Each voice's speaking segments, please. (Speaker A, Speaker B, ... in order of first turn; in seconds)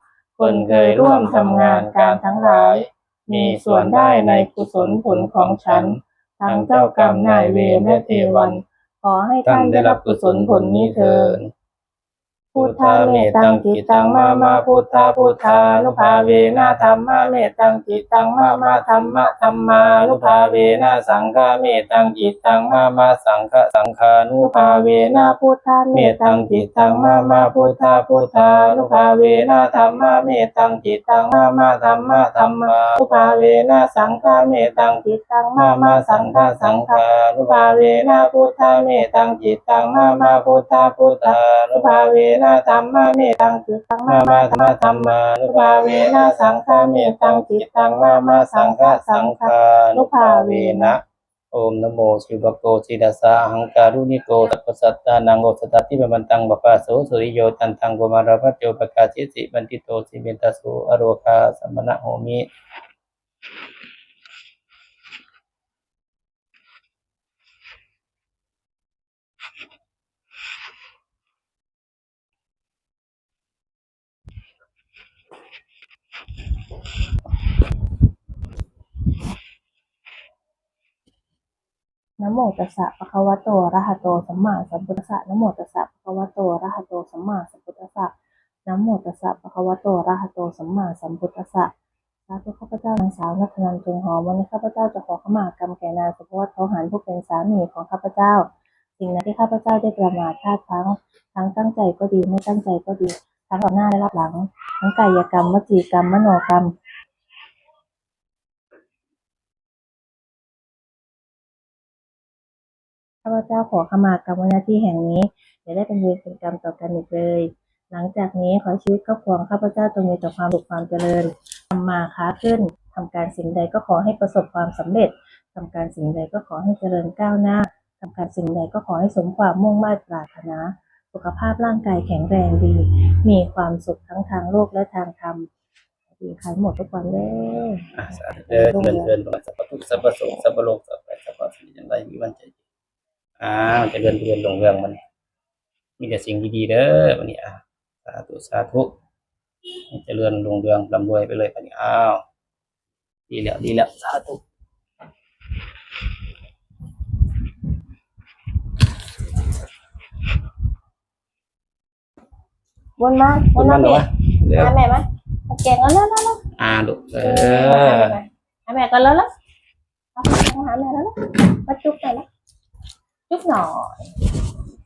Speaker A: 0.4-5.9, 6.5-8.5, 9.4-11.5, 12.6-25.0, 25.9-35.0, 35.5-42.9, 44.1-51.0, 51.5-62.5, 137.9-142.6, 143.4-145.0, 146.0-148.9, 149.9-152.2, 153.3-154.4, 163.5-164.7, 166.6-168.2
Speaker B: 0.4-11.4, 12.5-22.4, 24.4-30.2, 31.1-39.1, 39.8-51.0, 82.2-88.1, 88.7-91.7, 92.3-98.5, 99.0-106.7, 113.2-135.5, 136.2-137.9, 138.5-139.1, 163.0-166.4, 167.2-169.3, 170.2-172.2, 173.3-174.1